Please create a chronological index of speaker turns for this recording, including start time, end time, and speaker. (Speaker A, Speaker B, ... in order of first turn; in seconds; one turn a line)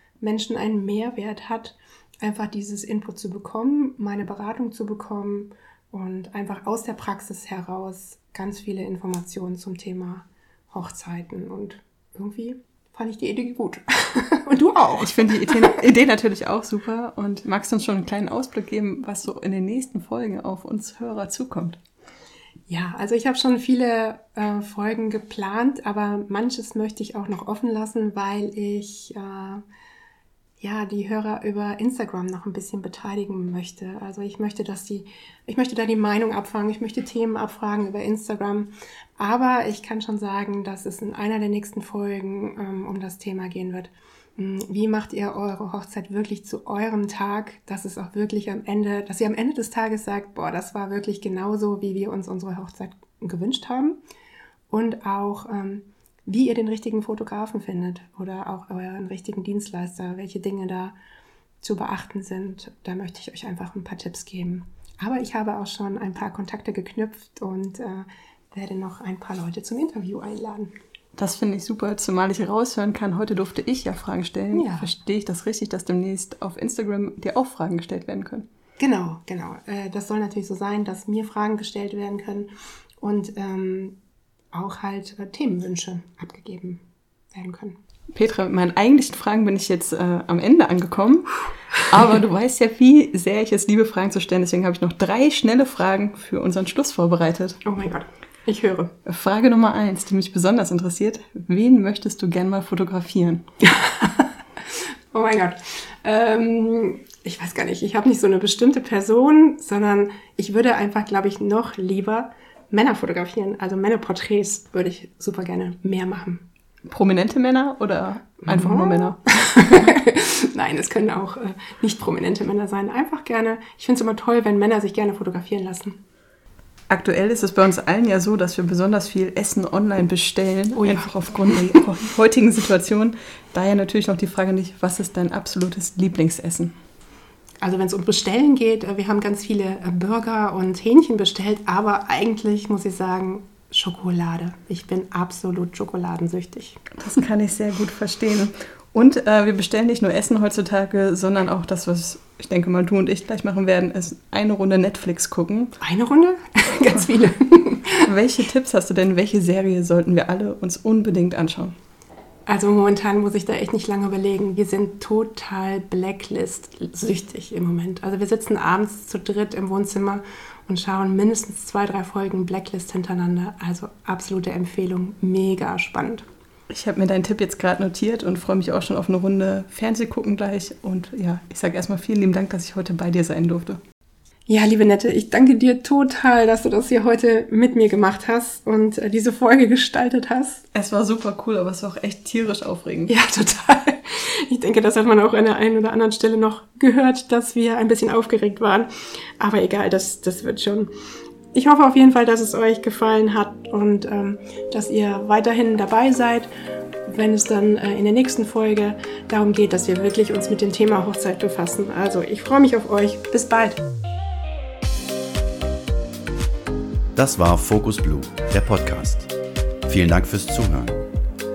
Speaker A: 0.2-15.8
Speaker B: 15.0-21.8
Speaker A: 22.7-29.6
Speaker A: 30.6-54.0
Speaker A: 54.7-61.0
Speaker A: 61.6-70.7
Speaker B: 71.2-78.5
Speaker A: 74.5-74.9
Speaker A: 78.8-84.0
Speaker A: 84.5-87.8
Speaker B: 88.1-97.6
Speaker A: 97.6-98.9
Speaker B: 99.1-103.5
Speaker A: 103.6-104.3
Speaker A: 105.1-116.5
Speaker B: 116.9-119.9
Speaker A: 118.4-126.0
Speaker B: 126.9-136.7
Speaker A: 130.8-131.6
Speaker A: 137.6-146.8
Speaker B: 147.0-155.7
Speaker A: 155.8-158.1
Speaker B: 158.1-161.8
Speaker A: 162.5-176.3
Speaker B: 176.7-183.8
Speaker A: 184.5-190.6
Speaker B: 190.7-193.1
Speaker A: 193.1-200.9
Speaker A: 201.5-206.5
Speaker A: 207.1-213.8
Speaker C: 217.2-219.3
Speaker C: 219.9-221.0